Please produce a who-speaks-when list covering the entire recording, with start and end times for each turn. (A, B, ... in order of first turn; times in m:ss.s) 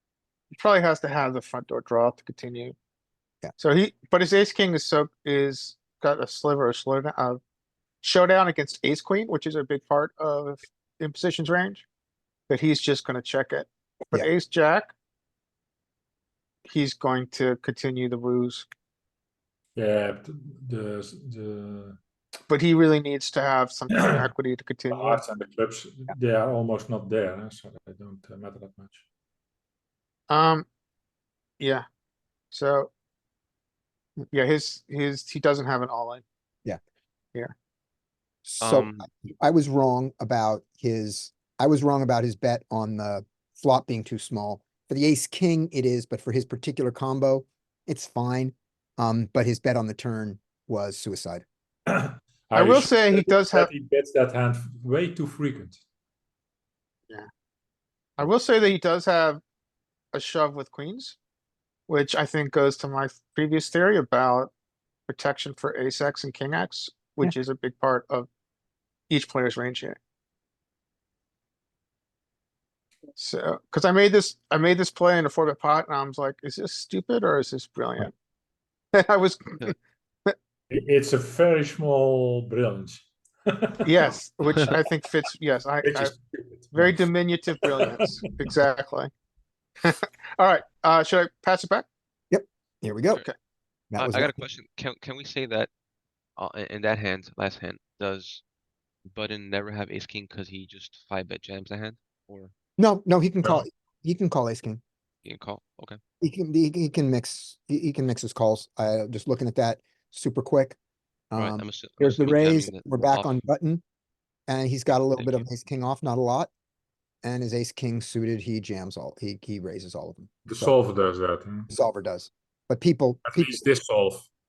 0:00.5-0:02.7 A
0:03.6-0:07.4 A
0:08.0-0:11.8 A
0:12.5-0:14.9 A
0:16.6-0:18.7 A
0:19.7-0:22.0 B
0:22.5-0:25.2 A
0:23.9-0:24.2 B
0:24.9-0:29.0 B
0:30.3-0:30.7 A
0:31.6-0:31.8 A
0:32.5-0:32.9 A
0:34.3-0:36.2 A
0:38.4-0:51.4 C
0:38.6-0:39.0 D
0:51.9-0:55.8 B
0:52.5-0:53.7 A
0:58.2-0:59.4 A
1:00.1-1:01.2 A
1:01.9-1:04.5 A
1:05.1-1:08.3 A
1:09.1-1:10.0 A
1:13.2-1:18.1 A
1:18.9-1:19.6 A
1:20.7-1:24.2 B
1:23.8-1:26.1 A
1:25.8-1:27.0 B
1:26.7-1:29.1 A
1:27.6-1:28.6 B
1:29.8-1:31.8 A
1:32.3-1:33.2 C
1:33.9-1:34.4 C
1:34.0-1:35.7 D
1:36.4-1:38.4 D
1:39.0-1:42.5 D
1:42.8-1:44.8 C
1:45.2-1:46.0 D
1:46.2-1:50.8 C
1:51.3-1:53.8 C
1:51.4-1:53.4 D
1:54.5-1:56.5 C
1:55.2-1:55.5 D
1:57.2-2:00.7 C
2:00.4-2:01.7 B
2:01.7-2:03.6 C
2:03.3-2:04.3 B